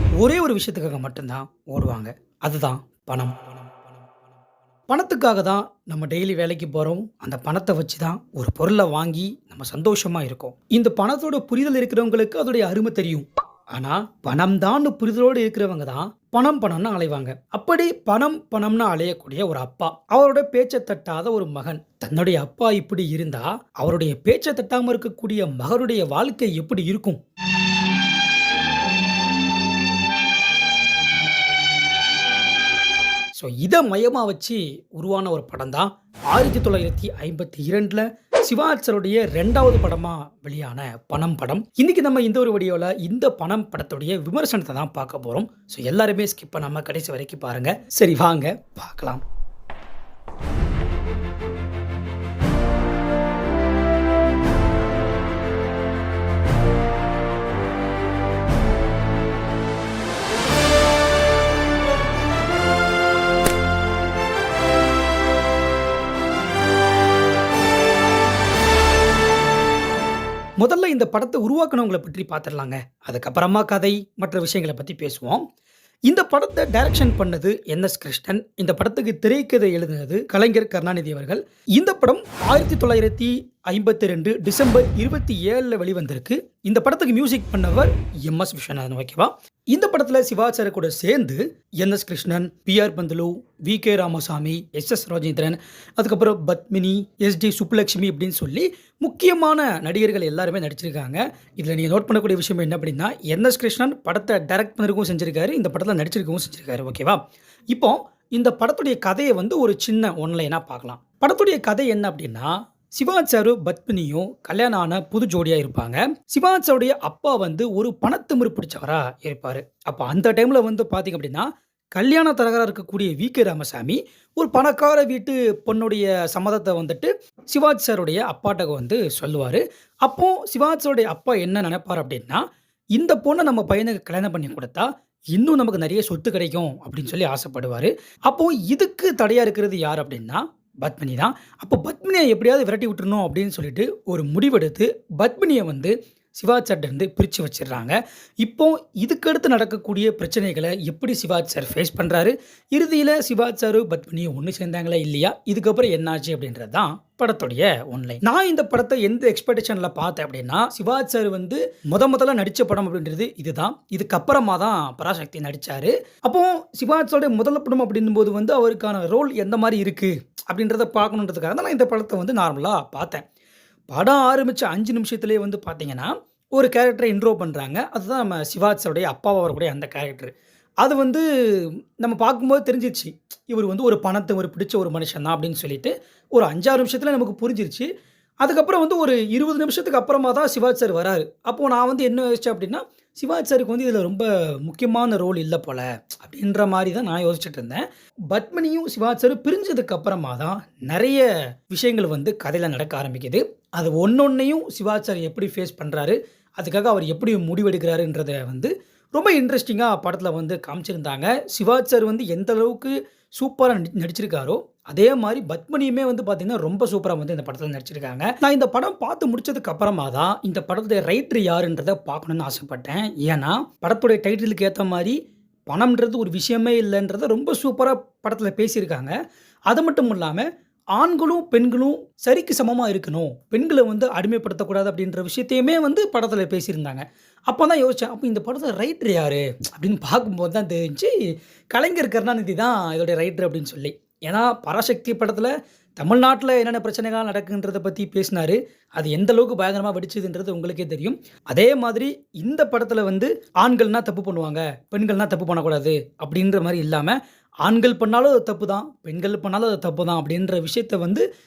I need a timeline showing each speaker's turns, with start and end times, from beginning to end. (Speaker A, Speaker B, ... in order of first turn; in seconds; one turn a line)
Speaker A: 0.2-4.1
Speaker A: 4.9-27.2
Speaker A: 33.4-49.2
Speaker A: 70.6-75.5
Speaker A: 76.1-132.4
Speaker A: 133.0-173.2
Speaker A: 173.9-187.9
Speaker A: 188.4-229.1
Speaker A: 229.7-241.1
Speaker A: 241.7-261.2